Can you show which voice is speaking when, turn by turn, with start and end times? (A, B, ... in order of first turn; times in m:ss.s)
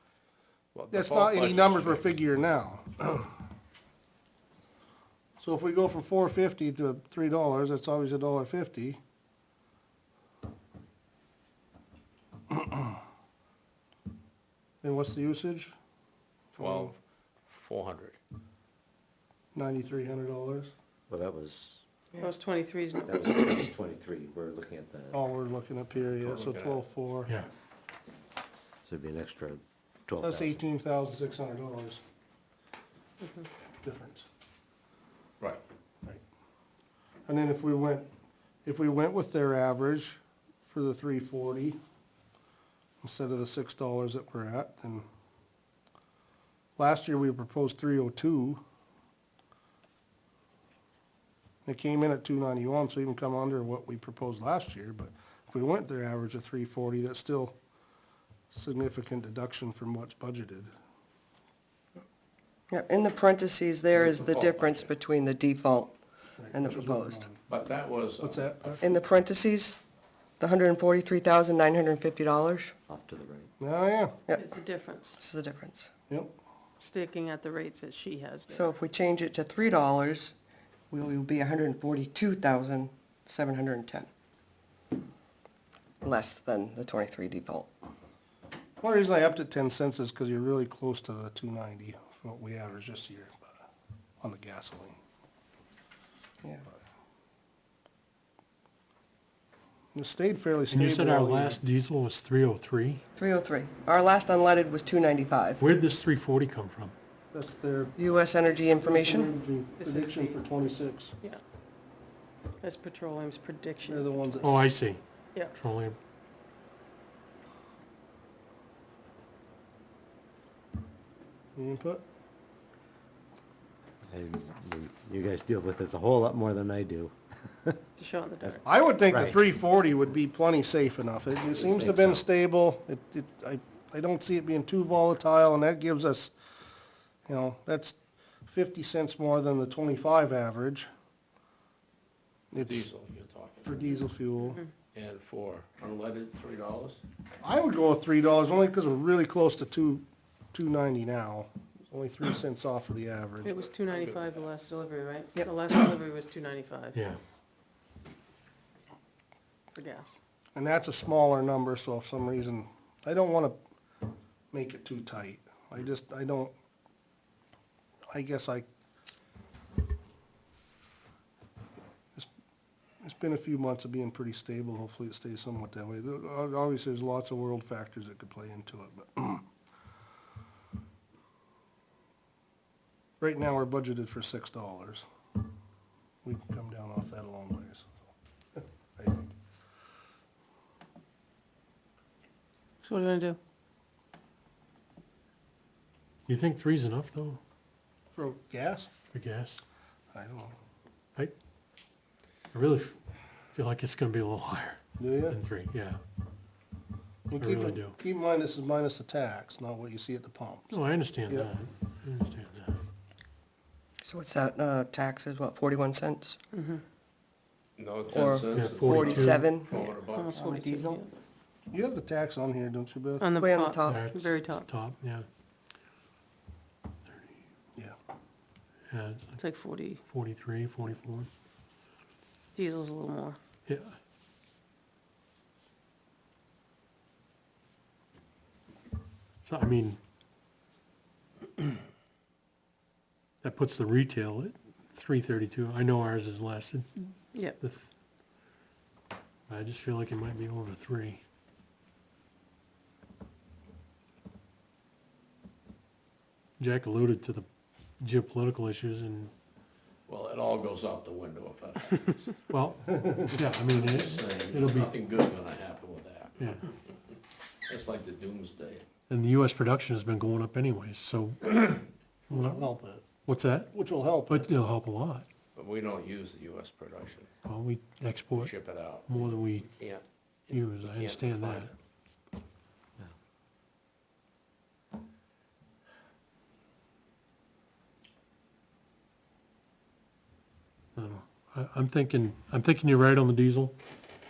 0:00.7-0:02.1 A
0:00.9-0:03.3 B
0:05.4-0:09.0 B
0:12.5-0:12.8 B
0:14.8-0:15.7 B
0:16.5-0:16.9 B
0:16.6-0:18.2 A
0:19.5-0:20.7 B
0:21.1-0:21.8 C
0:22.1-0:23.7 D
0:23.0-0:25.2 C
0:25.1-0:27.3 B
0:26.2-0:26.8 A
0:28.8-0:30.6 C
0:30.2-0:32.0 B
0:33.8-0:34.2 B
0:37.3-0:38.1 B
0:38.6-0:41.8 B
0:43.0-0:45.0 B
0:46.8-0:48.6 B
0:51.6-0:57.5 B
0:58.5-1:00.7 B
1:02.7-1:05.9 E
1:03.9-1:04.9 A
1:06.4-1:07.4 B
1:06.5-1:07.2 E
1:07.5-1:08.5 A
1:08.2-1:08.8 B
1:08.8-1:09.8 E
1:10.4-1:12.7 E
1:12.9-1:13.5 C
1:13.6-1:14.2 B
1:14.3-1:15.2 D
1:15.2-1:15.9 E
1:16.8-1:18.8 D
1:18.5-1:20.3 E
1:20.9-1:24.1 E
1:26.0-1:27.7 E
1:28.8-1:33.6 B
1:34.2-1:35.0 B
1:39.9-1:41.6 B
1:40.7-1:43.0 F
1:43.2-1:45.6 E
1:45.6-1:46.9 F
1:47.3-1:48.1 B
1:48.0-1:49.3 E
1:48.6-1:51.2 B
1:49.8-1:50.4 D
1:52.6-1:54.3 D
1:53.8-1:54.7 B
1:54.4-1:55.0 F
1:55.5-1:56.0 F
2:01.5-2:02.0 B
2:04.1-2:07.8 C
2:08.0-2:08.6 D
2:08.4-2:09.4 C
2:08.6-2:16.3 B
2:11.6-2:12.2 C
2:17.2-2:20.9 B
2:22.5-2:22.9 B
2:22.6-2:23.8 A
2:23.6-2:24.6 B
2:24.9-2:27.0 A
2:27.4-2:33.5 B
2:33.4-2:37.0 D
2:33.5-2:34.5 A
2:36.9-2:37.2 F
2:39.7-2:40.2 D
2:40.5-2:43.6 B
2:44.5-2:46.5 B
2:48.1-2:48.7 B
2:53.0-2:59.4 B
3:03.2-3:05.0 B
3:06.2-3:08.0 B
3:08.6-3:09.3 B
3:12.8-3:13.4 D
3:16.3-3:17.4 F
3:18.1-3:18.9 B
3:19.1-3:19.6 F
3:20.1-3:20.6 B
3:22.5-3:22.9 F
3:23.5-3:26.0 F
3:25.0-3:25.4 B
3:27.3-3:31.5 B
3:27.4-3:28.0 F
3:30.7-3:32.8 F
3:34.0-3:36.4 E
3:36.5-3:36.8 D
3:37.8-3:40.4 A
3:38.1-3:39.8 E
3:38.5-3:39.5 F
3:40.1-3:41.1 D
3:40.3-3:41.0 E
3:41.7-3:43.3 B
3:43.2-3:44.7 D
3:43.3-3:44.1 E
3:43.8-3:45.2 F
3:48.9-3:49.4 F
3:49.4-3:50.0 D
3:50.1-3:51.3 F
3:52.5-3:53.4 D
3:53.7-3:53.9 F
3:59.4-4:00.0 F
4:03.4-4:07.9 F
4:07.3-4:07.6 D
4:09.5-4:11.2 F
4:16.6-4:17.4 F
4:18.0-4:19.3 F
4:20.1-4:22.4 A
4:22.5-4:24.9 F
4:23.0-4:23.4 B
4:23.6-4:26.7 A
4:27.7-4:28.8 A
4:29.1-4:32.6 F
4:32.3-4:33.0 B
4:33.2-4:33.7 F
4:33.7-4:34.5 B
4:34.3-4:35.2 F
4:35.5-4:37.3 A
4:37.4-4:38.5 F
4:38.4-4:41.8 A
4:39.1-4:39.7 F
4:40.5-4:41.7 F
4:51.0-4:53.7 F